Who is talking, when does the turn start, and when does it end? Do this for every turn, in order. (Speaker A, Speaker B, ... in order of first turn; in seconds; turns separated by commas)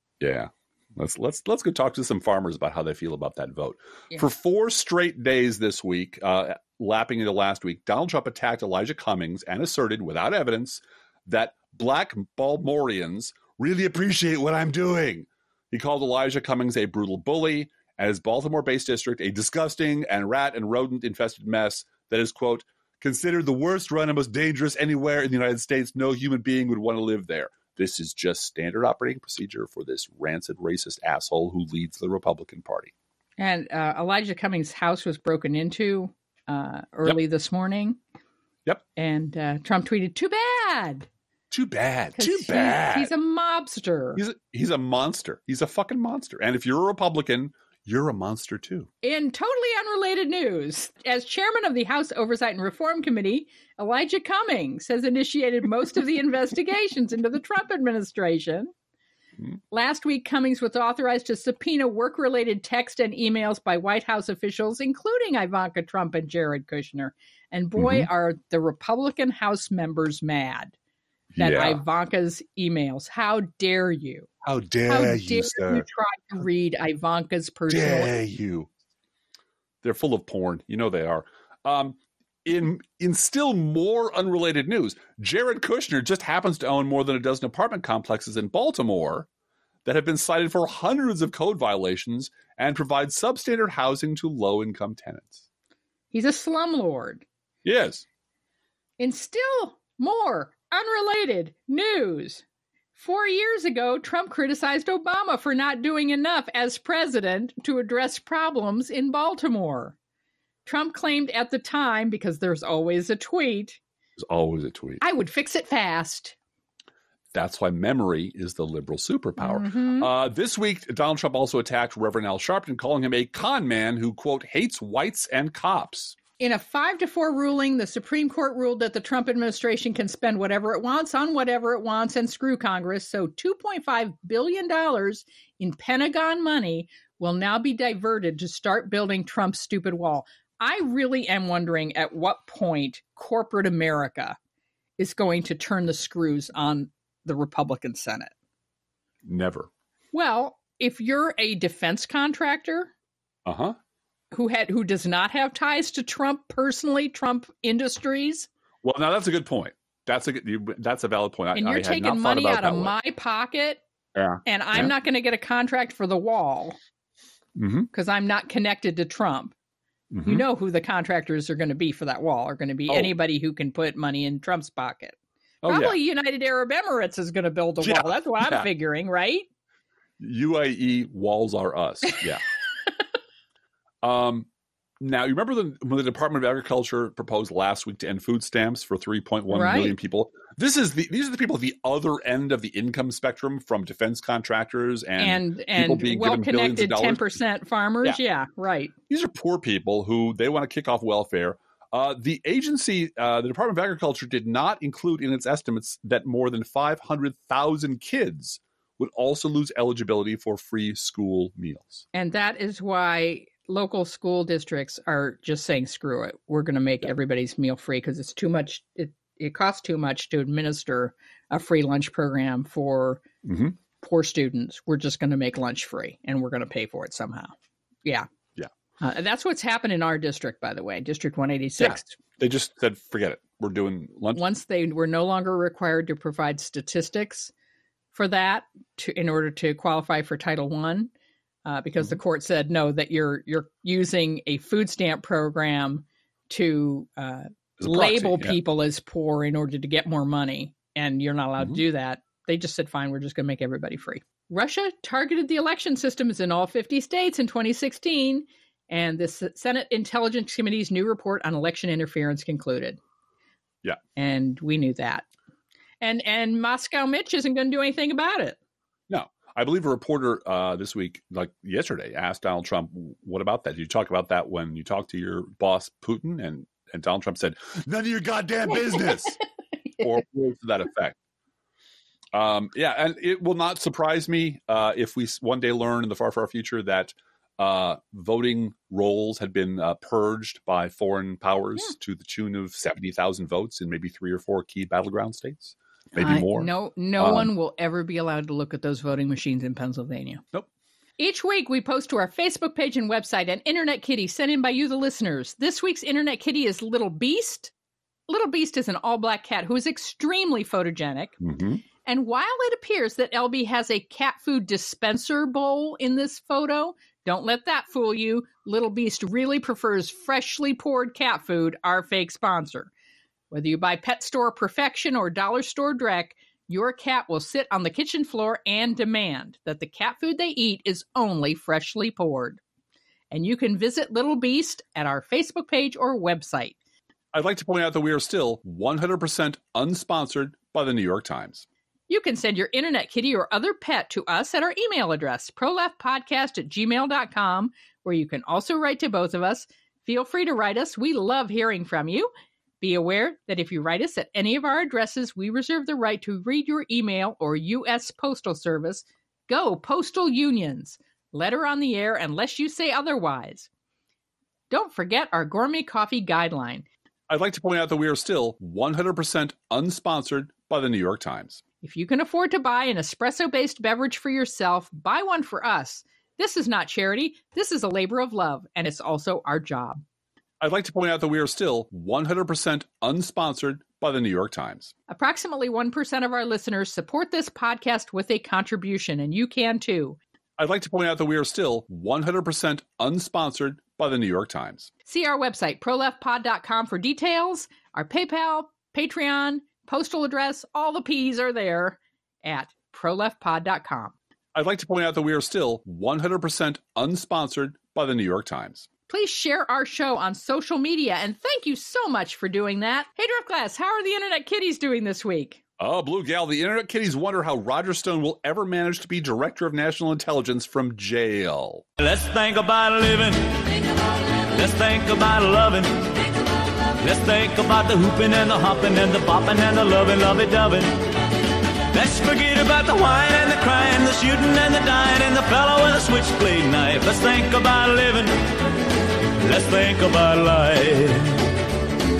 Speaker A: 0.2-32.9, Speaker B: 33.4-38.0, Speaker B: 39.0-41.1, Speaker A: 41.5-43.1, Speaker B: 42.1-44.2, Speaker A: 44.1-48.9, Speaker B: 49.0-58.7, Speaker B: 59.7-70.7, Speaker A: 67.8-68.1, Speaker A: 71.3-71.8, Speaker B: 71.4-74.3, Speaker A: 74.4-75.9, Speaker B: 74.9-78.1, Speaker A: 77.7-78.7, Speaker A: 79.8-89.3, Speaker A: 89.8-95.4, Speaker B: 96.1-97.2, Speaker A: 97.6-98.0, Speaker B: 99.0-102.4, Speaker B: 103.0-110.0, Speaker B: 110.7-113.8, Speaker A: 114.2-115.0, Speaker B: 115.0-116.4, Speaker A: 117.3-126.2, Speaker B: 119.4-120.1, Speaker B: 126.4-144.4, Speaker B: 145.0-148.3, Speaker A: 149.2-149.7, Speaker B: 150.1-152.9, Speaker A: 153.4-153.8, Speaker B: 154.3-158.5, Speaker A: 158.8-162.9, Speaker B: 161.6-163.8, Speaker A: 164.1-164.9, Speaker B: 164.4-166.8, Speaker A: 167.6-167.9, Speaker B: 167.9-169.6, Speaker A: 170.1-170.4, Speaker B: 170.2-179.4, Speaker A: 172.9-173.1, Speaker A: 175.6-175.9, Speaker A: 177.8-178.7, Speaker A: 180.2-182.4, Speaker A: 184.0-184.5, Speaker A: 185.0-197.3, Speaker B: 189.5-189.9, Speaker B: 195.2-198.9, Speaker A: 199.1-212.1, Speaker B: 212.1-223.2, Speaker A: 223.4-223.7, Speaker B: 223.9-228.3, Speaker B: 229.0-232.2, Speaker A: 231.8-234.4, Speaker B: 234.3-237.5, Speaker B: 238.1-241.1, Speaker B: 241.6-263.0, Speaker A: 247.8-248.6, Speaker B: 264.1-265.3, Speaker B: 266.0-268.6, Speaker A: 269.1-279.4, Speaker B: 278.9-279.2, Speaker A: 280.0-281.2, Speaker A: 282.3-297.5, Speaker B: 296.2-300.4, Speaker B: 301.2-307.7, Speaker B: 308.3-311.4, Speaker A: 311.4-311.8, Speaker B: 312.0-322.9, Speaker B: 323.5-332.6, Speaker B: 333.3-336.8, Speaker A: 337.3-341.6, Speaker B: 342.1-352.3, Speaker B: 352.8-363.7, Speaker B: 364.7-366.9, Speaker A: 367.3-371.6, Speaker B: 371.8-380.0, Speaker A: 380.6-384.9, Speaker B: 385.1-390.2, Speaker A: 390.6-394.9, Speaker B: 395.1-404.1, Speaker A: 404.6-408.9, Speaker B: 409.1-415.6, Speaker A: 415.8-421.9, Speaker C: 422.0-423.8, Speaker C: 424.5-426.4, Speaker C: 427.0-431.1, Speaker C: 431.9-438.4, Speaker C: 439.4-441.4